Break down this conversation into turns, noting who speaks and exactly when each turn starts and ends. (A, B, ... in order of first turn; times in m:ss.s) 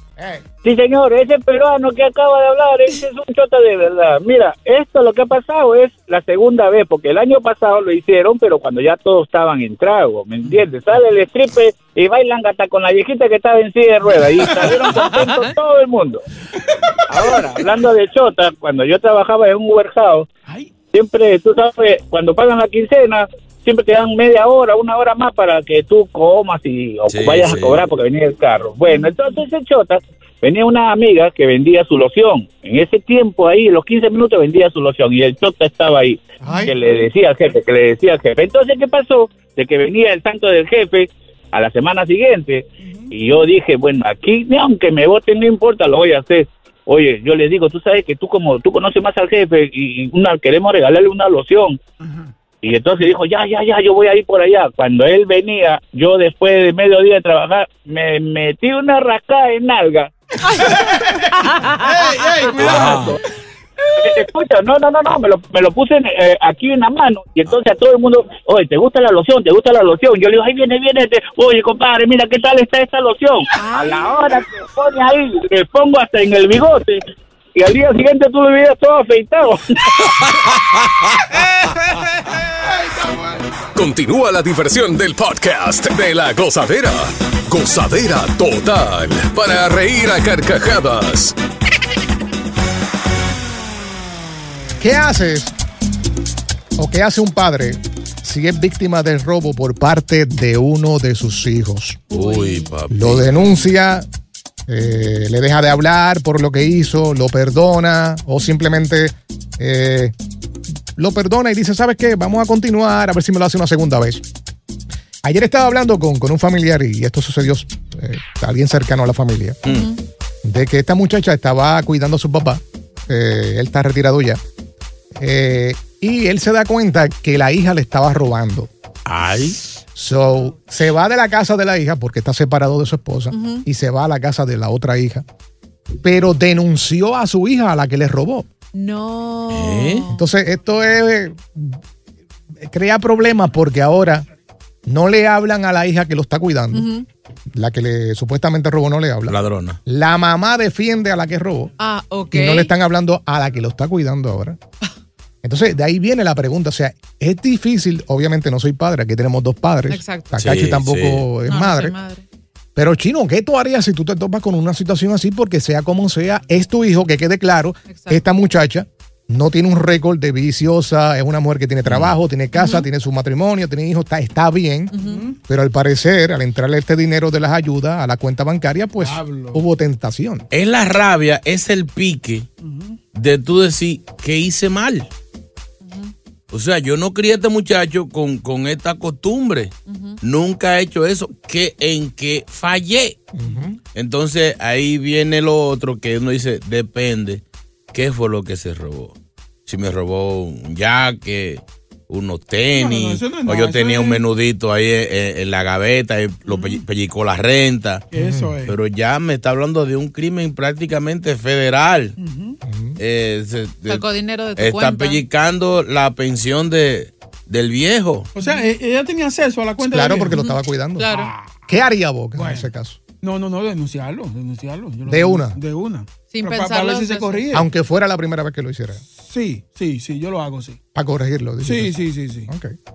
0:00.2-0:00.4 A
0:00.6-0:16.2 B
0:14.0-0:15.0 C
0:15.0-0:15.3 D
0:16.6-0:17.9 C
0:17.1-0:20.3 B
0:20.4-0:20.8 C
0:20.9-0:51.8 B
0:27.1-0:27.8 E
0:36.4-0:36.7 A
0:42.8-0:43.1 C
0:52.0-0:52.3 C
0:52.6-1:00.1 B
1:00.4-1:01.8 D
1:00.5-1:03.1 C
1:02.5-1:03.2 E
1:04.0-1:17.0 B
1:13.5-1:14.1 D
1:17.5-1:19.9 B
1:20.0-1:20.4 E
1:21.3-1:23.7 C
1:23.7-1:31.3 F
1:34.8-1:35.5 A
1:36.8-1:42.0 A
1:42.1-1:43.4 E
1:42.1-1:42.7 D
1:42.9-1:44.0 A
1:44.7-1:50.1 A
1:51.0-1:54.2 A
1:55.2-1:59.6 A
1:59.6-1:59.9 E
2:00.4-2:04.4 A
2:05.2-2:08.7 A
2:09.0-2:09.6 E
2:09.9-2:15.2 A
2:13.3-2:13.6 D
2:16.0-2:18.4 A
2:18.7-2:20.1 D
2:19.5-2:20.1 E
2:20.1-2:21.8 A
2:22.6-2:24.2 A
2:24.8-2:26.9 A
2:26.7-2:27.0 D
2:27.5-2:31.7 A
2:29.3-2:29.8 E
2:31.8-2:32.7 D
2:32.3-2:34.6 A
2:35.4-2:41.9 A
2:39.9-2:40.3 D
2:40.4-2:41.3 E
2:41.5-2:42.2 D
2:42.7-2:54.9 A
2:47.9-2:48.2 D
2:51.8-2:52.1 E
2:52.5-2:52.9 D
2:54.9-2:55.2 D
2:54.9-2:55.4 C
2:55.5-3:00.5 A
2:59.0-2:59.6 C
3:00.5-3:02.4 E
3:02.6-3:03.0 C
3:03.1-3:05.1 E
3:05.8-3:06.1 D
3:06.5-3:13.2 E
3:09.9-3:10.2 D
3:13.3-3:13.8 A
3:13.9-3:19.2 E
3:19.7-3:28.0 E
3:22.7-3:24.2 C
3:26.4-3:26.8 C
3:28.1-3:28.8 C
3:28.1-3:28.5 A
3:28.6-3:32.2 E
3:32.2-3:32.6 C
3:32.6-3:33.0 A
3:33.0-3:38.3 E
3:33.9-3:35.2 D
3:38.3-3:40.4 C
3:39.8-3:41.1 A
3:40.3-3:41.3 D
3:41.0-3:41.6 C
3:41.7-3:43.0 A
3:42.3-3:42.7 C
3:43.2-3:47.7 C
3:45.1-3:45.6 A
3:46.3-3:47.6 D
3:47.5-3:49.0 A
3:49.2-3:50.8 C
3:50.9-3:52.7 A
3:51.6-3:52.5 C